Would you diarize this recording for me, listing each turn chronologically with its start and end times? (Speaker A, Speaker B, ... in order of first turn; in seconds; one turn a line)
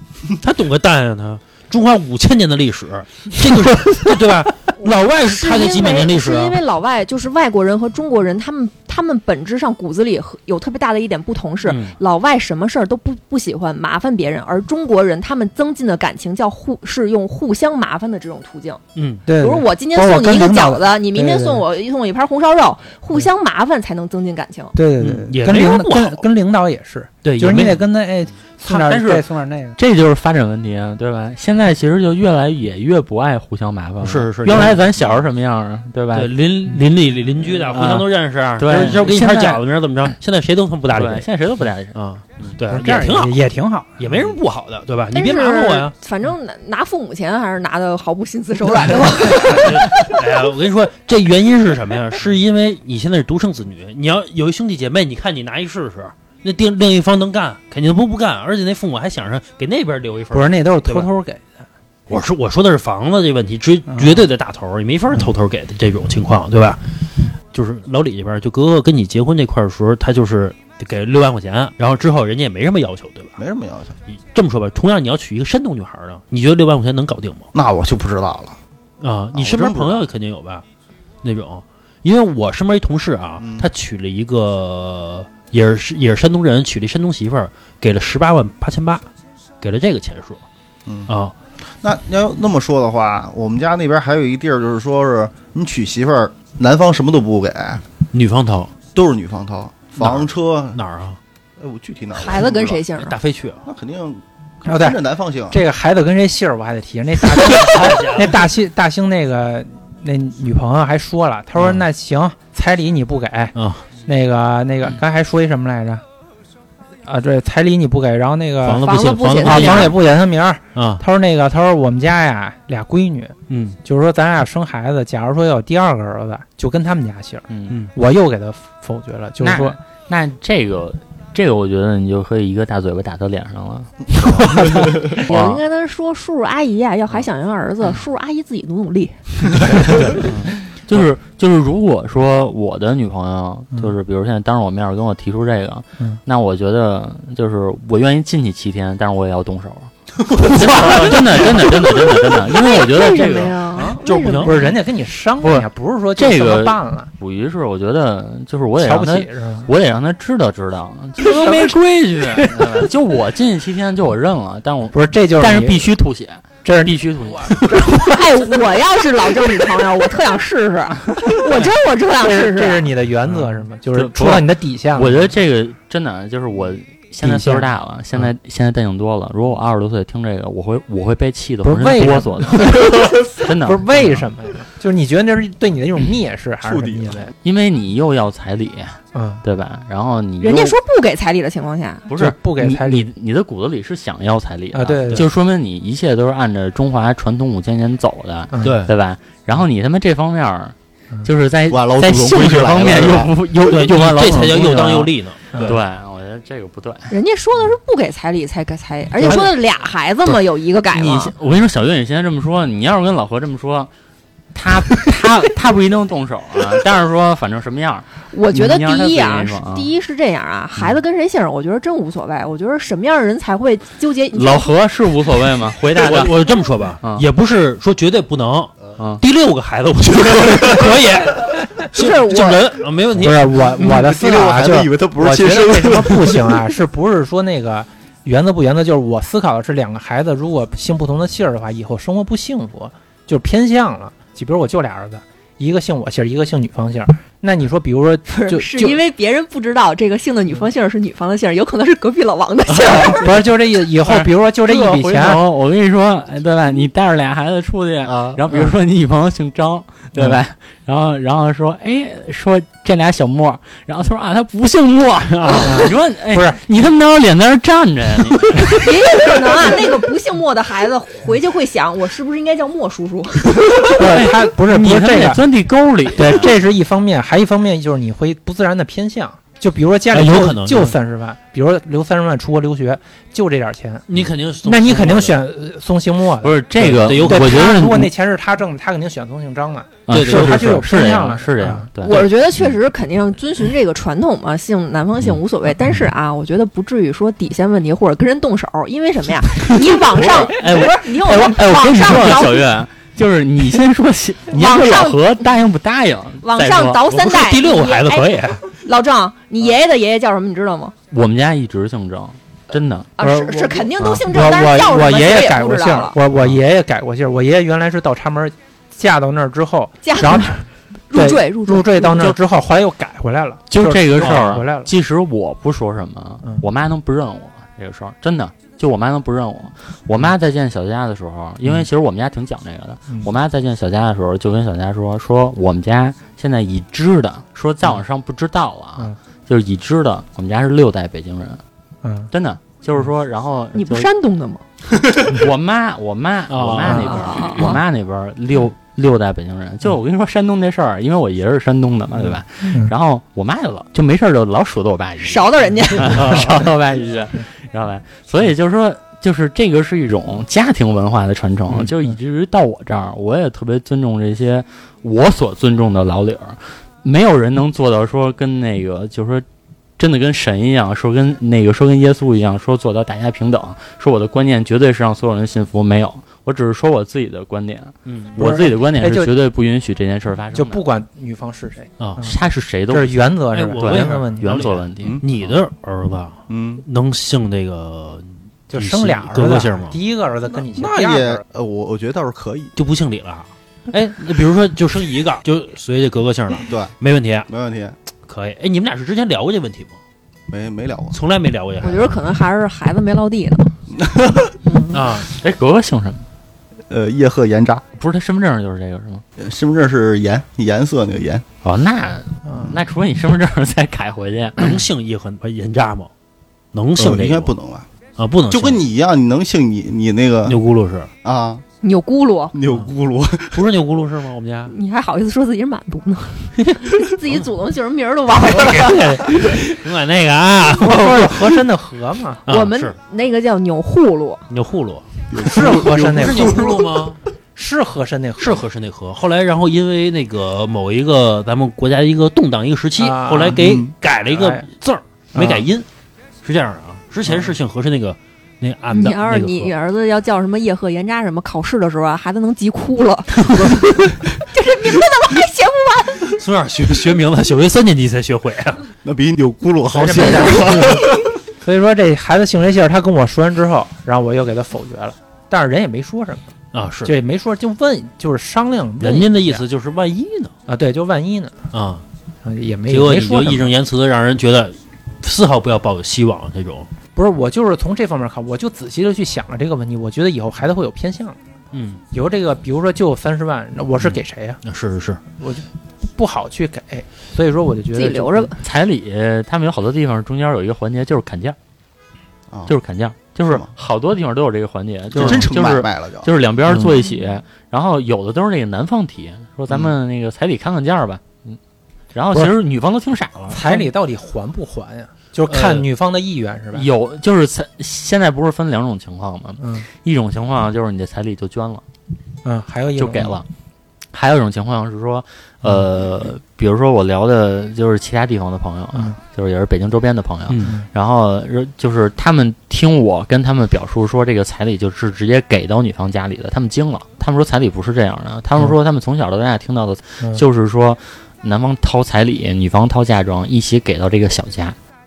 Speaker A: 0.3-6.6
Speaker B: 4.8-18.8
Speaker A: 11.7-12.0
Speaker A: 18.9-19.2
Speaker C: 19.2-21.6
Speaker B: 19.4-24.7
Speaker C: 24.7-29.8
Speaker A: 25.0-26.2
Speaker A: 27.2-27.8
Speaker D: 28.6-29.2
Speaker D: 29.8-36.3
Speaker A: 34.0-34.9
Speaker A: 36.1-41.3
Speaker C: 37.7-38.0
Speaker D: 38.6-40.1
Speaker D: 40.9-42.6
Speaker A: 41.9-43.4
Speaker C: 42.7-44.0
Speaker A: 44.0-45.9
Speaker B: 45.1-50.1
Speaker A: 49.4-61.1
Speaker C: 60.3-61.6
Speaker A: 62.1-67.0
Speaker C: 63.9-64.2
Speaker A: 67.5-73.4
Speaker E: 73.4-74.0
Speaker A: 74.1-77.5
Speaker E: 77.5-78.6
Speaker A: 79.0-80.6
Speaker E: 79.3-80.0
Speaker A: 81.2-89.1
Speaker E: 83.4-83.7
Speaker A: 89.6-90.4
Speaker E: 90.8-91.1
Speaker A: 91.1-91.3
Speaker E: 91.8-97.8
Speaker A: 98.1-98.7
Speaker E: 98.9-100.8
Speaker A: 100.0-101.2
Speaker E: 101.6-102.9
Speaker B: 102.1-103.2
Speaker A: 103.0-103.6
Speaker E: 103.6-105.6
Speaker C: 104.7-105.0
Speaker C: 105.5-116.0
Speaker A: 107.4-108.4
Speaker A: 111.6-111.8
Speaker A: 113.5-113.8
Speaker C: 117.0-129.8
Speaker A: 118.6-120.0
Speaker B: 118.8-119.9
Speaker A: 120.7-121.0
Speaker A: 123.5-123.8
Speaker D: 127.5-127.8
Speaker D: 129.4-135.6
Speaker B: 135.1-139.2
Speaker D: 139.9-153.7
Speaker A: 150.3-151.6
Speaker B: 152.4-154.7
Speaker C: 153.7-157.1
Speaker A: 154.0-154.7
Speaker D: 155.4-167.9
Speaker C: 158.8-159.7
Speaker C: 161.2-161.8
Speaker C: 162.3-162.9
Speaker C: 164.9-165.9
Speaker C: 166.6-168.2
Speaker B: 167.9-172.8
Speaker C: 172.2-175.3
Speaker D: 173.3-184.3
Speaker C: 177.2-177.7
Speaker C: 181.6-187.3
Speaker E: 186.7-187.2
Speaker D: 187.4-190.8
Speaker C: 189.1-189.4
Speaker B: 190.4-192.1
Speaker D: 192.1-207.1
Speaker C: 192.1-193.1
Speaker C: 194.7-195.3
Speaker C: 198.5-198.8
Speaker A: 198.6-198.9
Speaker E: 201.7-203.3
Speaker A: 203.6-205.8
Speaker B: 207.1-211.3
Speaker D: 210.9-213.9
Speaker D: 214.5-219.9
Speaker B: 218.3-224.7
Speaker D: 224.3-227.2
Speaker A: 225.9-233.6
Speaker D: 229.0-229.2
Speaker E: 230.2-230.8
Speaker B: 231.9-232.7
Speaker C: 233.2-249.0
Speaker E: 233.9-236.6
Speaker B: 248.3-253.2
Speaker C: 253.0-255.4
Speaker D: 254.0-269.3
Speaker E: 258.1-258.4
Speaker C: 265.6-266.6
Speaker B: 268.7-273.8
Speaker D: 273.8-276.5
Speaker C: 273.8-275.4
Speaker C: 276.1-291.9
Speaker A: 280.1-280.9
Speaker A: 284.1-285.4
Speaker D: 286.4-288.1
Speaker A: 286.8-287.8
Speaker D: 290.1-292.3
Speaker A: 290.1-290.9
Speaker B: 292.0-302.7
Speaker D: 300.2-307.0
Speaker A: 300.4-300.9
Speaker B: 304.5-305.3
Speaker B: 306.4-310.9
Speaker A: 307.1-308.6
Speaker D: 311.1-313.1
Speaker B: 313.2-316.1
Speaker C: 313.2-324.9
Speaker B: 320.0-320.6
Speaker B: 321.1-322.2
Speaker D: 323.7-341.6
Speaker C: 342.0-342.3
Speaker D: 342.3-344.1
Speaker B: 343.7-344.6
Speaker D: 345.1-369.4
Speaker A: 346.5-347.6
Speaker C: 346.8-347.1
Speaker B: 347.1-347.8
Speaker C: 352.2-352.9
Speaker B: 355.2-356.4
Speaker A: 356.1-356.6
Speaker D: 370.0-380.8
Speaker A: 378.1-378.4
Speaker C: 378.4-379.3
Speaker C: 380.5-382.4
Speaker D: 382.2-385.5
Speaker C: 382.9-384.8
Speaker A: 383.5-390.0
Speaker E: 386.5-386.8
Speaker C: 388.7-391.4
Speaker E: 390.6-392.7
Speaker A: 392.8-397.5
Speaker E: 396.6-396.9
Speaker E: 397.5-397.9
Speaker A: 398.2-400.0
Speaker E: 400.5-401.1
Speaker A: 401.1-402.1
Speaker B: 401.8-403.7
Speaker E: 403.9-404.5
Speaker B: 404.6-405.0
Speaker A: 404.9-405.3
Speaker D: 405.3-406.2
Speaker E: 406.9-407.8
Speaker D: 407.9-409.2
Speaker E: 409.4-411.4
Speaker D: 411.6-414.8
Speaker A: 414.6-416.1
Speaker A: 416.7-417.5
Speaker E: 417.0-417.9
Speaker A: 418.2-418.8
Speaker E: 418.5-420.6
Speaker A: 420.4-421.1
Speaker E: 421.2-421.6
Speaker B: 421.8-422.5
Speaker E: 422.5-423.6
Speaker A: 423.5-424.7
Speaker B: 424.7-429.4
Speaker A: 428.4-431.6
Speaker C: 430.7-432.4
Speaker A: 432.4-432.9
Speaker B: 432.5-434.5
Speaker A: 434.5-437.2
Speaker E: 435.3-436.8
Speaker C: 435.4-436.9
Speaker C: 437.5-438.6
Speaker A: 438.4-445.9
Speaker C: 443.0-443.8
Speaker E: 443.5-443.9
Speaker C: 444.3-444.6
Speaker C: 445.3-445.7
Speaker A: 446.4-449.7
Speaker B: 448.9-456.3
Speaker A: 456.2-458.9
Speaker E: 459.0-461.3
Speaker C: 459.9-466.5
Speaker A: 466.7-467.1
Speaker C: 467.0-469.6
Speaker A: 469.0-470.5
Speaker C: 470.7-471.7
Speaker A: 471.7-472.0
Speaker C: 472.4-473.7
Speaker A: 472.9-476.9
Speaker C: 477.1-481.4
Speaker A: 481.7-482.0
Speaker C: 482.1-484.6
Speaker A: 484.0-485.2
Speaker C: 485.4-488.5
Speaker B: 487.9-488.6
Speaker D: 488.6-491.6
Speaker D: 492.7-501.6
Speaker E: 495.1-496.3
Speaker D: 502.1-503.8
Speaker C: 503.5-506.9
Speaker A: 505.5-505.8
Speaker D: 506.7-511.8
Speaker C: 509.6-509.9
Speaker C: 512.4-513.4
Speaker D: 513.0-513.5
Speaker D: 514.1-534.8
Speaker A: 520.5-520.7